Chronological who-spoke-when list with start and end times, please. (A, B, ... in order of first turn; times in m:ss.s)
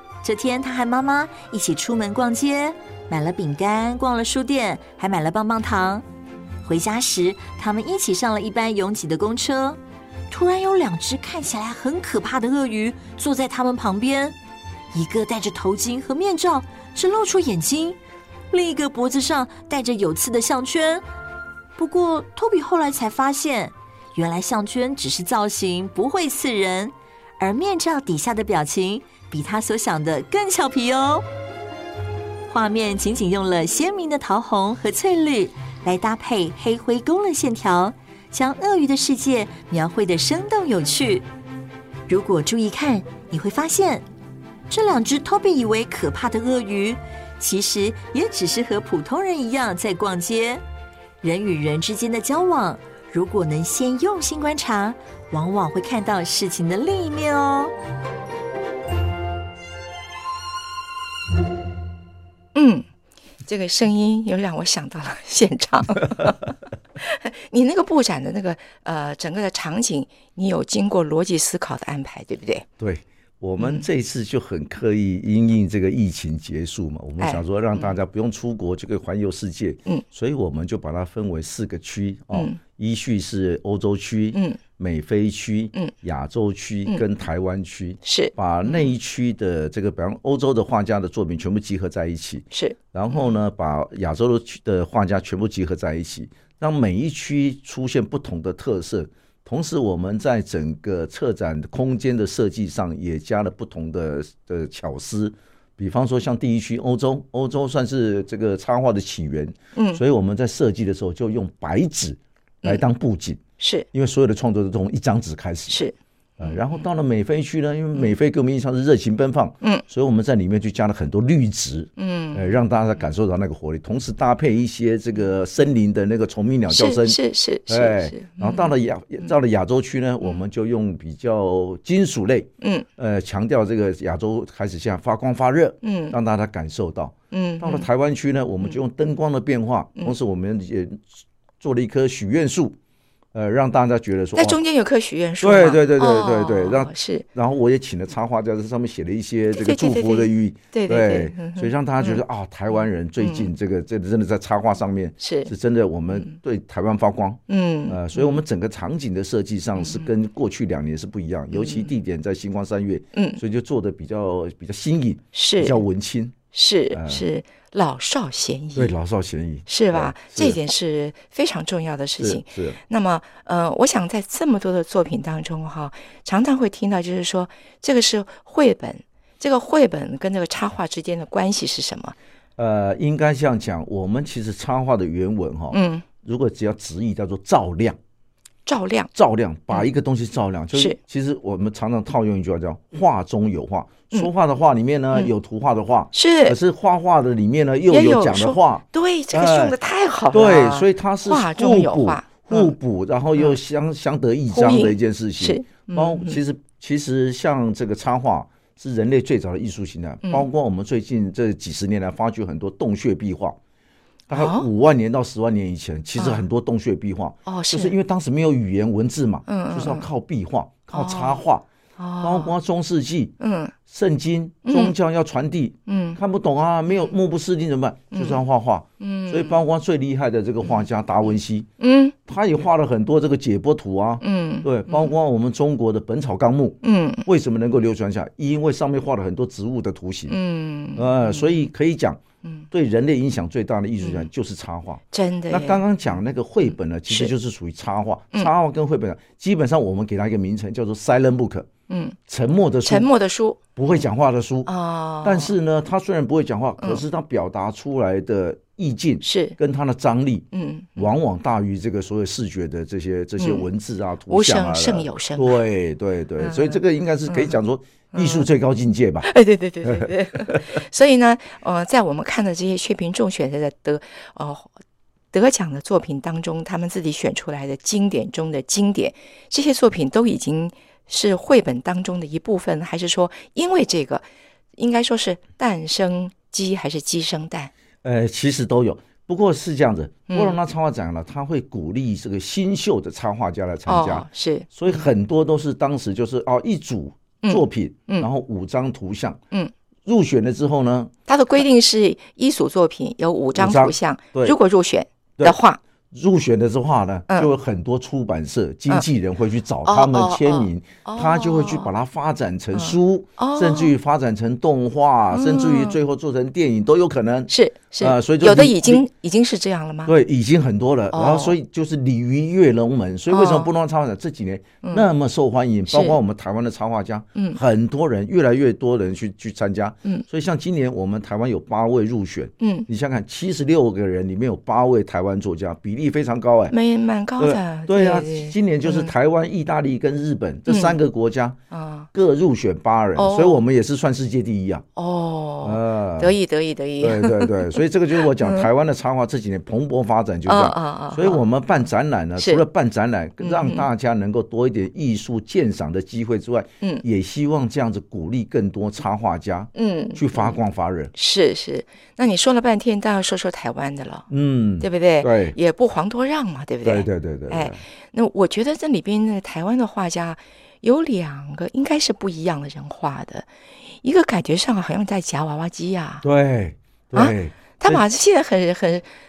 0:00.2-0:06.0 A
0:06.6-0:14.3 A
0:14.9-0:18.0 A
0:18.5-0:21.0 A
0:21.8-0:31.2 A
0:32.5-0:41.2 A
0:42.1-0:44.0 A
0:44.7-0:50.6 A
0:51.2-0:57.7 A
1:02.5-1:02.8 B
1:03.4-1:12.6 B
1:12.8-1:53.4 C
1:13.6-1:13.8 B
1:17.2-1:18.0 B
1:22.3-1:22.6 B
1:24.3-1:24.6 B
1:28.0-1:28.9 B
1:32.5-1:33.4 B
1:49.7-1:50.0 B
1:53.6-1:53.8 B
1:53.9-1:55.8 C
1:55.7-1:56.7 B
1:56.4-2:22.8 C
2:02.0-2:02.5 B
2:06.7-2:08.7 B
2:12.6-2:12.8 B
2:15.8-2:16.2 B
2:17.3-2:17.9 B
2:23.3-2:24.6 C
2:24.4-2:27.2 B
2:25.4-2:46.3 C
2:29.5-2:32.2 B
2:33.2-2:33.5 B
2:35.2-2:35.5 B
2:37.5-2:38.4 B
2:39.8-2:40.1 B
2:41.5-2:41.9 B
2:43.1-2:43.4 B
2:45.3-2:45.8 B
2:46.5-2:48.9 B
2:46.9-2:47.2 C
2:48.8-2:50.6 C
2:49.7-3:02.1 B
2:52.2-2:52.8 C
3:02.6-3:08.0 C
3:05.7-3:06.0 B
3:08.6-3:09.1 B
3:09.1-3:19.8 C
3:16.1-3:16.6 B
3:17.9-3:22.7 B
3:20.3-3:33.6 C
3:24.5-3:26.4 B
3:34.3-3:34.7 B
3:34.3-3:41.6 C
3:36.2-3:36.4 B
3:37.4-3:37.9 B
3:39.5-3:40.1 B
3:40.9-3:41.4 B
3:42.0-3:42.5 B
3:42.2-3:43.3 C
3:43.4-3:43.7 B
3:43.9-3:51.7 C
3:44.6-3:44.9 B
3:45.9-3:46.2 B
3:48.1-3:48.4 B
3:49.0-3:49.6 B
3:51.8-3:52.2 B
3:52.2-4:00.4 C
3:54.2-3:55.1 B
3:56.8-3:57.2 B
4:00.3-4:01.7 B
4:01.0-4:02.2 C
4:02.7-4:11.7 C
4:04.0-4:04.3 B
4:05.1-4:05.8 B
4:11.9-4:12.2 B
4:12.3-4:13.1 C
4:12.8-4:13.6 B
4:13.8-4:14.7 C
4:14.6-4:15.5 B
4:15.2-4:29.3 C
4:19.2-4:19.6 B
4:20.5-4:21.1 B
4:23.4-4:23.7 B
4:24.3-4:25.6 B
4:26.4-4:27.6 B
4:28.1-4:28.5 B
4:29.2-4:34.7 B
4:29.8-4:30.7 C
4:35.3-4:47.7 B
4:48.0-4:59.4 C
4:50.3-4:50.5 B
4:53.9-4:55.0 B
4:57.4-4:58.3 B
5:00.0-5:01.1 C
5:01.3-5:05.8 B
5:03.6-5:04.6 C
5:06.1-5:19.0 C
5:09.8-5:11.9 B
5:12.7-5:13.9 B
5:15.3-5:16.0 B
5:17.5-5:20.1 B
5:20.0-5:36.7 C
5:21.1-5:21.5 B
5:23.3-5:23.7 B
5:25.9-5:26.2 B
5:32.6-5:32.9 B
5:36.7-5:39.1 B
5:37.4-5:41.6 C
5:40.7-5:41.0 B
5:41.7-5:42.1 B
5:42.1-5:44.8 C
5:43.2-5:43.6 B
5:45.0-5:48.7 B
5:45.6-5:46.4 C
5:47.0-6:01.1 C
5:50.5-5:51.4 B
5:52.4-5:52.6 B
5:53.4-5:53.8 B
5:59.7-6:00.6 B
6:01.1-6:04.3 B
6:04.3-6:05.6 C
6:04.8-6:13.5 B
6:06.8-6:07.8 C
6:14.0-6:16.2 B
6:16.2-6:18.0 C
6:17.1-6:19.1 B